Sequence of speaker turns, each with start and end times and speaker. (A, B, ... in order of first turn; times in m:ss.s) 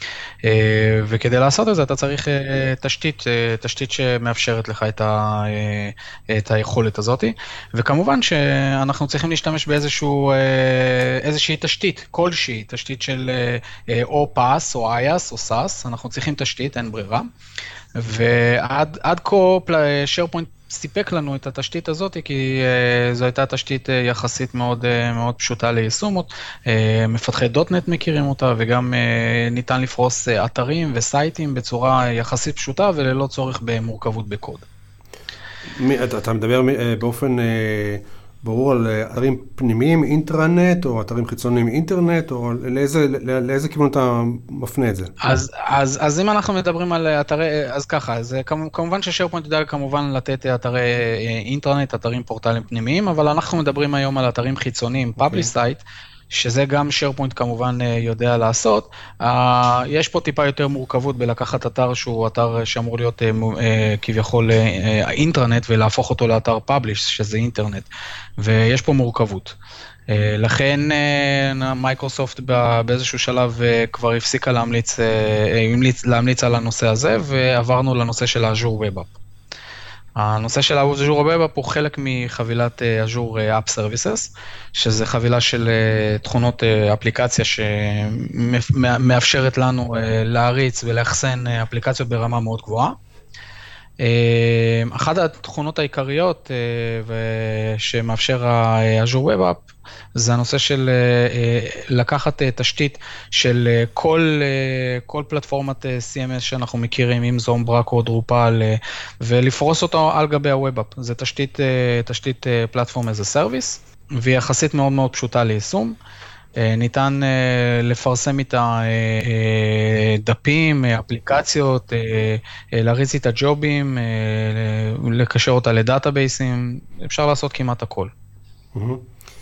0:00.4-0:17.3 A
0:18.0-0:34.6 A
0:35.6-0:45.1 B
0:45.2-1:09.5 A
0:55.2-0:55.5 B
1:10.1-1:19.1 A
1:20.2-1:33.0 A
1:34.0-1:39.6 A
1:40.2-1:55.9 A
1:56.6-2:08.1 A
2:08.7-2:09.0 B